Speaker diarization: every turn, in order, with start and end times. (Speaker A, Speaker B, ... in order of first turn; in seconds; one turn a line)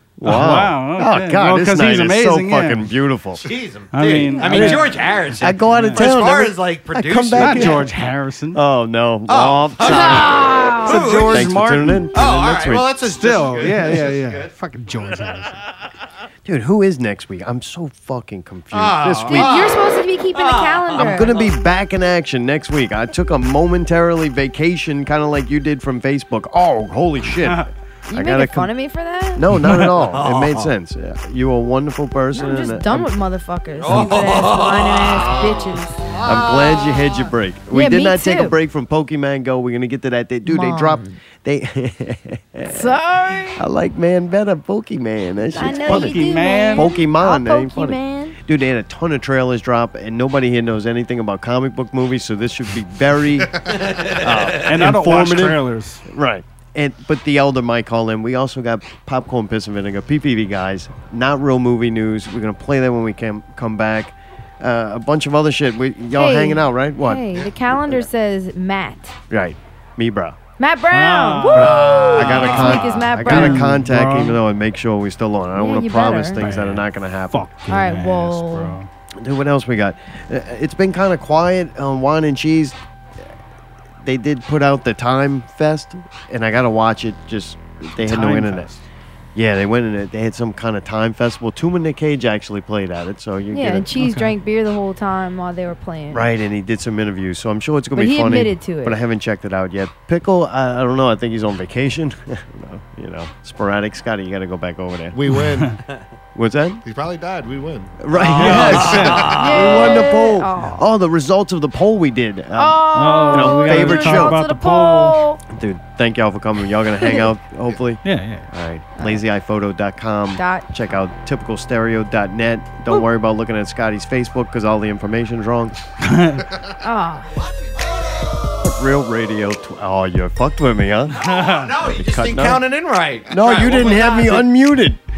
Speaker A: 0.2-3.5
Speaker B: 0.2-2.9
Speaker C: 3.4-7.9
Speaker B: 3.9-4.9
Speaker A: 4.5-4.8
Speaker A: 5.4-12.9
Speaker B: 5.7-6.0
Speaker B: 7.4-8.6
Speaker C: 9.3-11.6
Speaker D: 9.8-11.2
Speaker B: 11.0-12.1
Speaker C: 12.1-14.5
Speaker B: 13.1-15.6
Speaker A: 16.4-19.7
Speaker C: 18.7-21.5
Speaker D: 19.3-21.4
Speaker A: 20.9-28.7
Speaker D: 28.1-29.4
Speaker A: 29.4-33.1
Speaker C: 29.6-30.7
Speaker D: 32.3-36.0
Speaker C: 33.8-36.8
Speaker A: 36.2-53.6
Speaker D: 37.7-38.6
Speaker D: 40.5-41.2
Speaker D: 42.7-43.6
Speaker D: 45.5-48.4
Speaker B: 45.8-46.8
Speaker C: 53.7-54.8
Speaker A: 54.2-68.1
Speaker B: 54.6-56.0
Speaker D: 66.1-69.2
Speaker A: 69.3-70.4
Speaker D: 70.6-73.8
Speaker B: 70.9-71.7
Speaker C: 71.5-73.0
Speaker A: 71.7-77.5
Speaker B: 73.2-74.4
Speaker D: 75.5-76.5
Speaker B: 76.4-78.9
Speaker D: 77.7-78.8
Speaker A: 79.2-82.8
Speaker A: 84.0-88.7
Speaker B: 88.0-88.8
Speaker A: 89.3-93.9
Speaker D: 93.5-96.3
Speaker B: 94.0-94.3
Speaker A: 96.1-105.2
Speaker D: 98.0-99.0
Speaker E: 105.1-105.8
Speaker A: 106.3-106.8
Speaker E: 106.8-108.0
Speaker A: 108.0-114.4
Speaker C: 108.1-110.0
Speaker B: 108.4-109.2
Speaker E: 108.7-109.3
Speaker D: 109.3-110.8
Speaker D: 112.5-115.4
Speaker B: 113.0-115.2
Speaker A: 115.5-125.8
Speaker D: 117.0-117.3
Speaker B: 118.0-118.5
Speaker D: 119.0-119.2
Speaker D: 120.3-120.7
Speaker B: 126.0-126.4
Speaker D: 126.8-127.3
Speaker A: 128.6-131.2
Speaker C: 131.1-134.5
Speaker B: 131.3-131.6
Speaker A: 131.9-132.7
Speaker A: 133.3-135.0